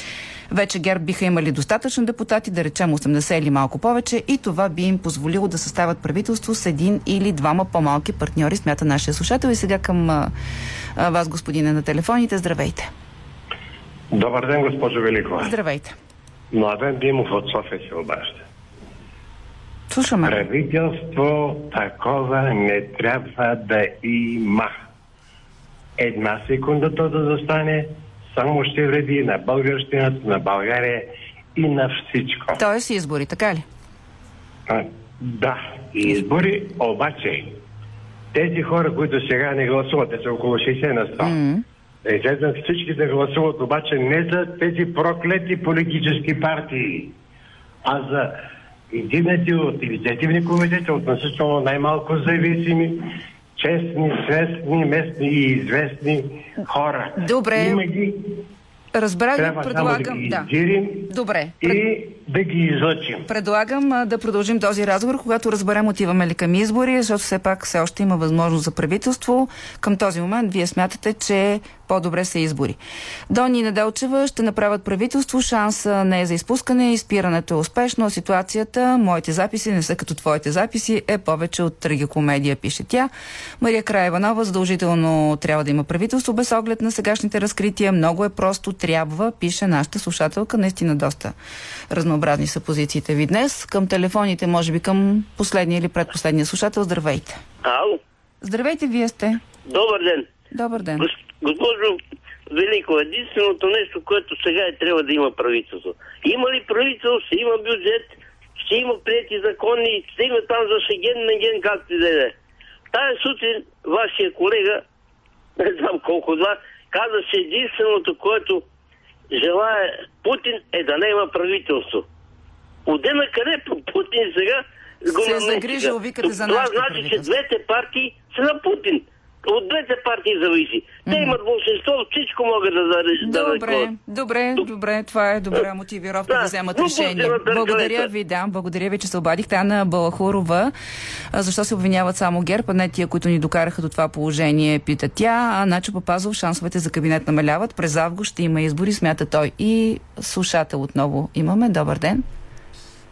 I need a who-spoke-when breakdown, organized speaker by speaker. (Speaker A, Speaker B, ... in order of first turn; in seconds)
Speaker A: 0.5-10.3, 11.0-12.9, 15.4-15.9, 19.9-20.5, 32.6-33.6, 41.2-41.6, 57.2-57.8, 58.9-60.5, 61.1-61.8, 63.2-72.8, 73.3-91.3, 91.9-97.4, 98.4-99.4, 100.5-101.1, 125.2-127.3, 131.1-131.4, 133.2-140.7, 141.3-152.2
Speaker B: 14.1-15.5, 16.5-18.4, 20.2-24.8, 26.0-32.6, 34.7-37.6, 38.3-41.4, 42.0-47.1, 47.8-48.4, 48.9-58.4, 59.4-63.2
Speaker C: 97.6-98.0, 99.7-100.3, 101.0-112.3, 112.9-114.8, 115.6-118.6, 119.3-122.0, 122.9-133.9, 136.3-138.1